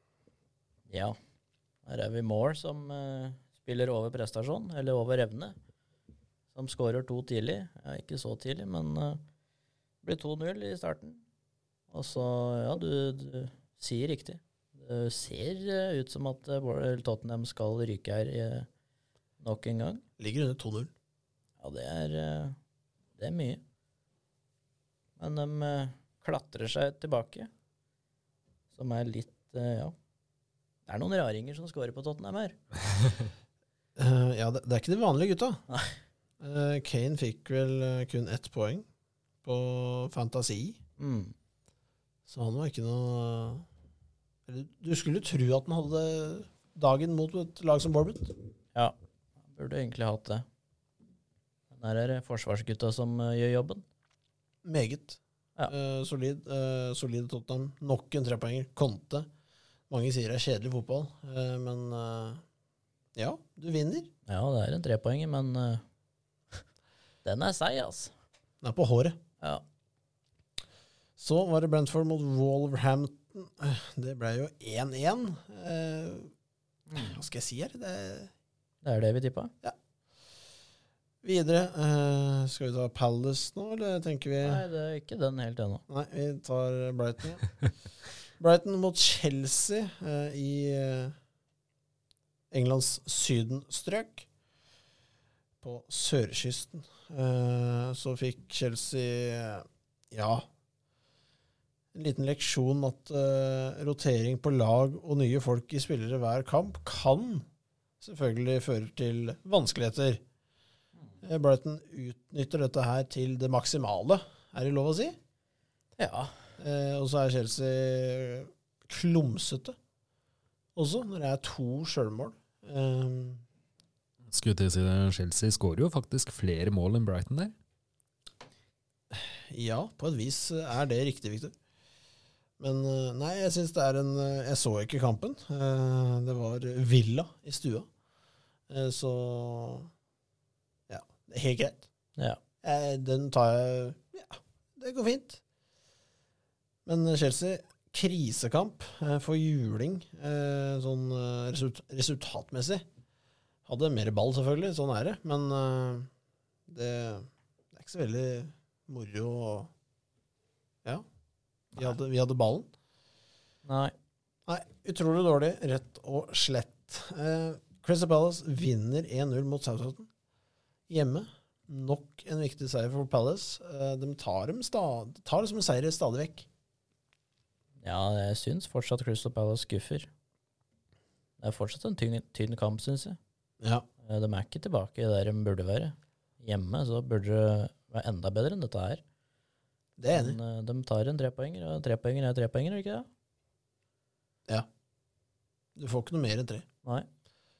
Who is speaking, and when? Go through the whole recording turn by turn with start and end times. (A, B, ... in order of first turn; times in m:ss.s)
0:00.9-0:01.2 A
0:01.9-0:05.6 A
0:06.5-0:09.2 A
0:10.0-0:11.2 A
0:11.9-0:18.7 A
0:19.4-0:20.0 A
0:20.2-0:20.9 B
0:21.6-0:22.6 A
0:23.2-0:23.6 A
0:25.2-0:27.5 A
0:28.7-0:30.0 A
0:30.9-0:32.6 A
0:34.0-0:35.6 B
0:35.7-0:36.0 A
0:36.4-0:38.9 B
0:39.4-0:40.8 B
0:41.0-0:41.3 A
0:42.3-0:43.7 B
0:44.5-0:48.3 B
0:49.5-0:50.5 A
0:51.7-0:53.8 A
0:54.6-0:59.3 B
0:59.9-1:02.4 B
1:03.2-1:04.1 B
1:04.3-1:05.8 A
1:07.2-1:08.1 A
1:08.6-1:09.2 B
1:11.2-1:16.3 B
1:16.9-1:17.2 A
1:16.9-1:18.3 B
1:18.8-1:19.5 A
1:21.2-1:24.6 B
1:24.4-1:25.8 A
1:25.9-1:27.5 B
1:28.4-1:31.2 B
1:32.5-1:34.3 B
1:35.6-1:40.5 B
1:41.9-1:47.5 B
1:48.0-1:50.2 B
1:51.2-1:55.2 B
1:56.0-1:56.3 A
1:56.6-1:59.8 B
2:00.8-2:03.4 B
2:04.3-2:07.5 C
2:09.1-2:11.6 B
2:12.6-2:17.9 B
2:18.7-2:19.9 B
2:20.9-2:21.9 B
2:22.6-2:25.4 B
2:26.9-2:32.8 B
2:33.7-2:36.1 B
2:36.7-2:39.7 B
2:41.8-2:42.7 B
2:43.6-2:43.9 A
2:44.5-2:50.1 B
2:50.9-2:56.5 B
2:57.8-3:00.1 A
3:01.4-3:03.2 A
3:03.6-3:03.9 B
3:04.0-3:09.0 A
3:10.0-3:10.4 B
3:10.1-3:13.1 A
3:15.8-3:16.7 B